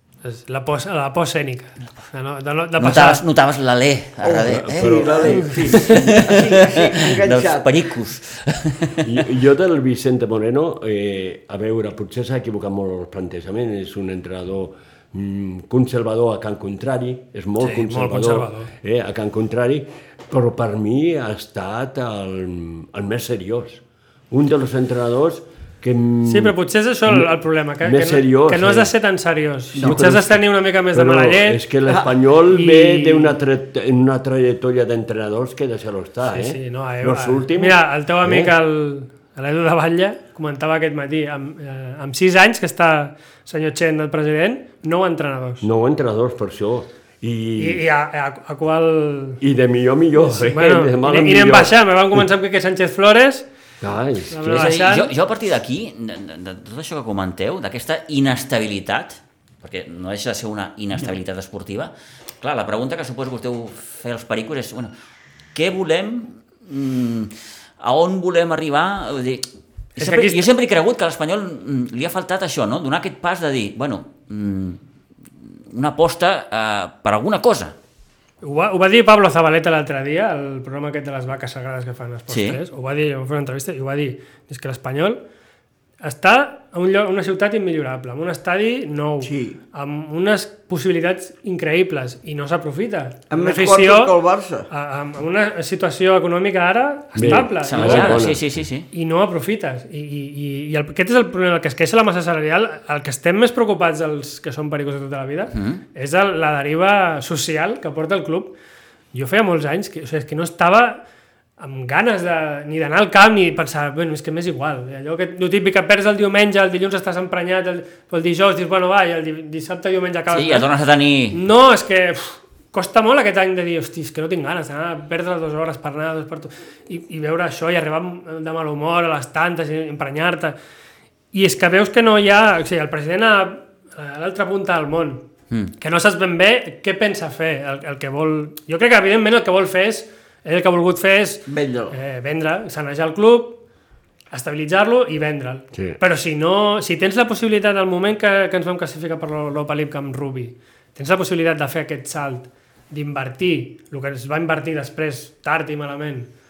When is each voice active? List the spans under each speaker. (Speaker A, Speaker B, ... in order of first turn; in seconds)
Speaker A: 0.2-3.2, 17.6-18.7, 26.2-31.6, 32.5-33.4, 36.3-45.7, 47.6-49.4, 50.2-53.5, 54.3-55.1, 70.0-70.4, 78.4-85.2, 86.0-94.2, 94.7-98.3, 98.9-108.5, 109.1-111.0, 111.6-120.7, 121.3-130.6, 131.3-135.2, 135.8-143.6, 144.3-156.3
Speaker B: 2.8-9.1, 54.5-64.9, 65.5-74.8, 75.7-77.8, 82.3-82.6, 97.6-98.9, 105.5-105.8, 120.3-121.4
Speaker C: 4.2-7.8, 89.2-89.6, 93.3-94.7, 141.5-142.0
Speaker D: 4.4-5.9, 9.0-26.6, 27.8-28.9, 29.8-30.4, 30.9-38.5, 45.6-47.8, 49.4-52.2, 53.8-54.7, 97.2-98.6